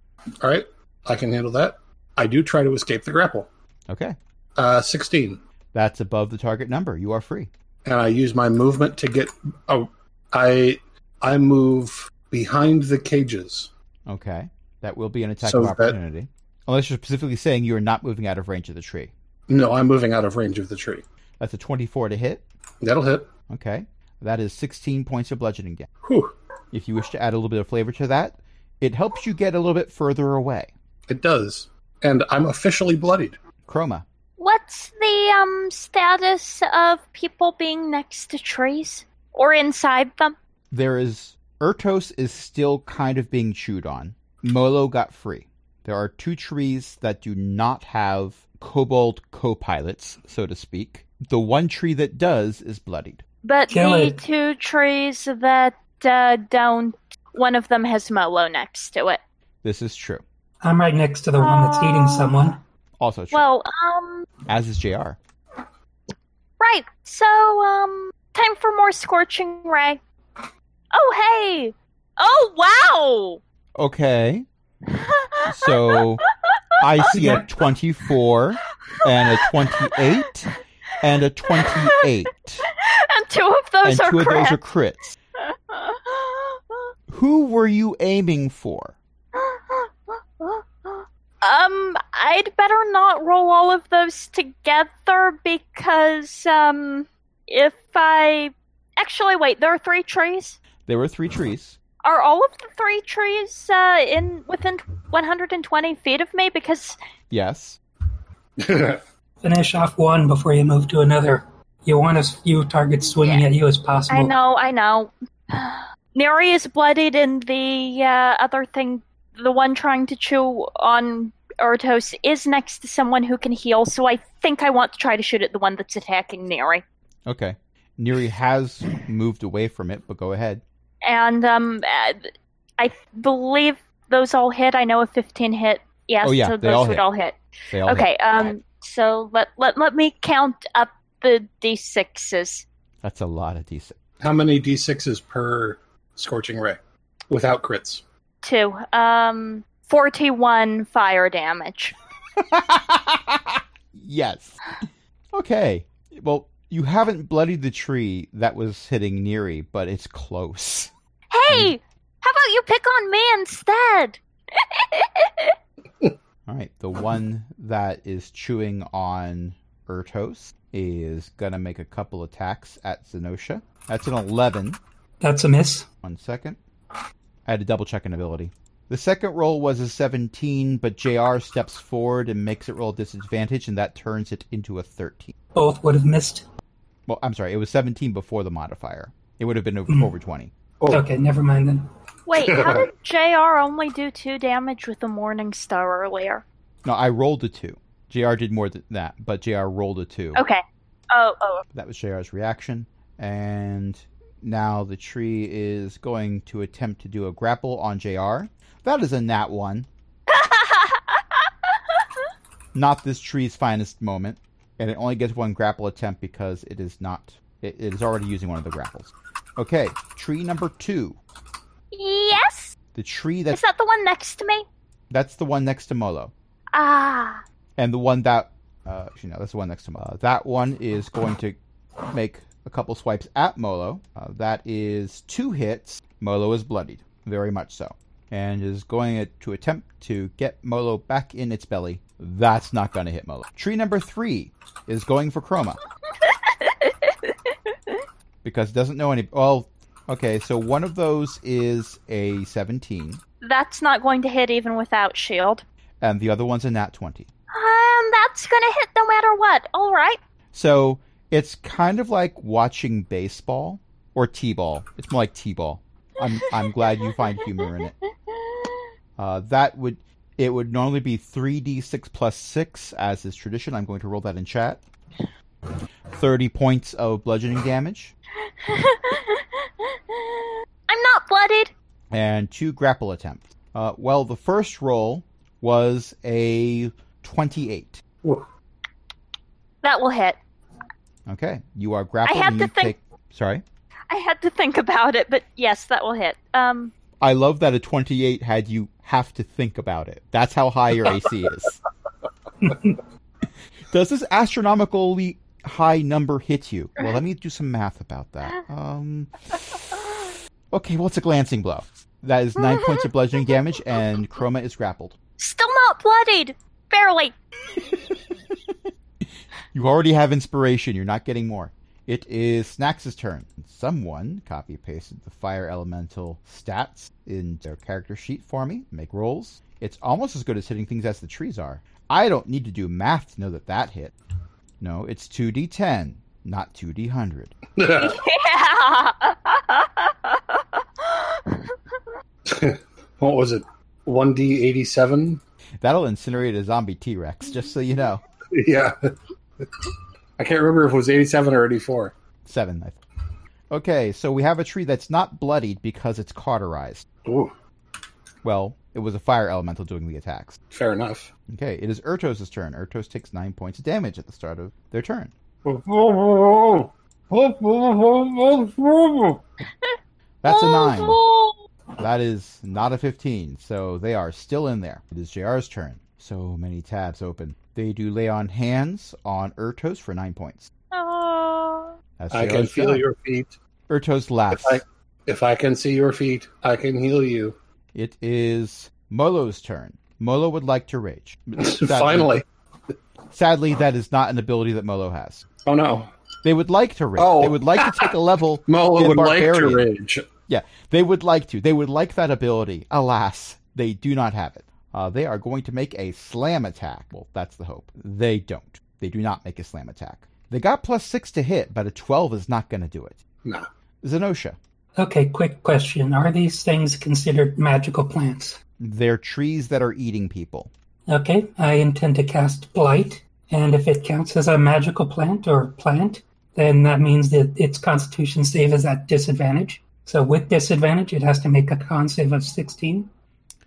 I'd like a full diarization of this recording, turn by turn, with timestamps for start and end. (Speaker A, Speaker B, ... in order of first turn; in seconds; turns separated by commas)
Speaker A: 0.4-3.5, Speaker B: 3.9-4.2, Speaker A: 4.5-5.4, Speaker B: 5.7-7.5, Speaker A: 7.8-13.7, Speaker B: 14.1-19.1, Speaker A: 15.4-15.9, Speaker A: 19.5-21.0, Speaker B: 21.4-22.4, Speaker A: 22.8-23.3, Speaker B: 23.5-25.9, Speaker A: 26.0-26.3, Speaker B: 26.7-30.7, Speaker A: 31.1-33.4, Speaker B: 33.6-34.0, Speaker C: 34.4-40.3, Speaker B: 40.7-53.2, Speaker C: 53.4-59.2, Speaker D: 53.7-54.2, Speaker B: 59.6-60.2, Speaker D: 60.6-62.6, Speaker C: 61.4-62.5, Speaker B: 63.0-63.4, Speaker C: 63.3-64.3, Speaker B: 64.5-65.2, Speaker C: 66.6-70.0, Speaker C: 70.9-73.4, Speaker B: 73.8-74.4, Speaker C: 74.9-76.0, Speaker B: 75.5-76.2, Speaker B: 76.8-80.5, Speaker D: 77.1-77.4, Speaker C: 79.2-80.0, Speaker B: 81.0-82.6, Speaker C: 81.6-82.0, Speaker C: 82.8-84.6, Speaker B: 83.8-85.1, Speaker C: 85.5-86.6, Speaker B: 87.1-89.0, Speaker C: 89.3-100.6, Speaker B: 100.9-101.8, Speaker C: 102.0-107.0, Speaker B: 107.3-107.8, Speaker A: 108.6-109.0, Speaker D: 109.4-114.3, Speaker C: 114.1-126.8, Speaker B: 127.2-130.6, Speaker C: 131.0-142.7, Speaker B: 136.2-137.0, Speaker B: 137.7-138.5, Speaker B: 143.0-143.9, Speaker A: 144.2-146.8, Speaker A: 147.3-148.0, Speaker C: 148.4-151.9, Speaker B: 152.4-154.6, Speaker B: 155.3-160.9, Speaker C: 161.3-165.5, Speaker B: 161.5-161.8, Speaker B: 166.5-174.8, Speaker D: 175.2-175.9, Speaker B: 176.0-176.6, Speaker B: 177.4-185.3, Speaker D: 185.5-186.4, Speaker B: 187.1-190.5, Speaker A: 190.8-191.1, Speaker D: 190.9-191.9, Speaker C: 192.3-196.4, Speaker A: 192.3-192.9, Speaker B: 196.8-200.4, Speaker C: 200.3-201.6, Speaker B: 201.7-209.9, Speaker C: 210.3-211.2, Speaker B: 212.7-221.2, Speaker C: 221.9-222.8, Speaker B: 222.9-223.6, Speaker C: 223.5-224.7, Speaker B: 225.1-226.3, Speaker C: 226.7-227.4, Speaker B: 227.8-231.6, Speaker B: 232.1-245.8, Speaker C: 246.3-247.3, Speaker B: 248.4-253.2, Speaker C: 253.4-255.6, Speaker B: 256.0-257.3, Speaker C: 257.5-260.2, Speaker B: 260.5-267.9, Speaker B: 269.2-274.8, Speaker B: 276.1-278.1, Speaker C: 278.6-281.7, Speaker B: 282.1-288.0, Speaker C: 289.8-290.4, Speaker B: 291.3-293.6, Speaker C: 292.2-292.9, Speaker C: 294.1-296.9, Speaker B: 297.2-301.8, Speaker B: 303.9-310.1, Speaker B: 310.7-315.1, Speaker C: 315.4-317.3, Speaker B: 319.7-334.1, Speaker B: 334.8-337.5, Speaker A: 337.8-338.2, Speaker C: 337.9-341.7, Speaker A: 342.4-345.4, Speaker B: 345.8-348.2, Speaker A: 348.5-349.1, Speaker A: 350.4-352.1, Speaker B: 352.4-353.0, Speaker B: 353.7-357.1, Speaker A: 357.2-357.5, Speaker B: 358.4-360.6, Speaker A: 360.7-361.3, Speaker B: 361.5-365.3, Speaker A: 365.6-369.4, Speaker B: 370.4-371.2, Speaker C: 370.4-371.6, Speaker B: 372.0-380.7, Speaker C: 380.9-381.9, Speaker B: 382.2-383.0, Speaker A: 382.3-383.5, Speaker B: 383.9-384.8, Speaker A: 384.5-387.6, Speaker B: 387.9-392.3, Speaker A: 391.6-392.4, Speaker B: 393.3-395.4, Speaker A: 395.6-396.1, Speaker B: 396.4-399.9, Speaker A: 397.2-398.1, Speaker A: 398.7-400.3, Speaker B: 400.5-413.2, Speaker B: 414.0-414.6, Speaker D: 415.0-418.6, Speaker B: 418.8-420.7, Speaker D: 421.1-433.1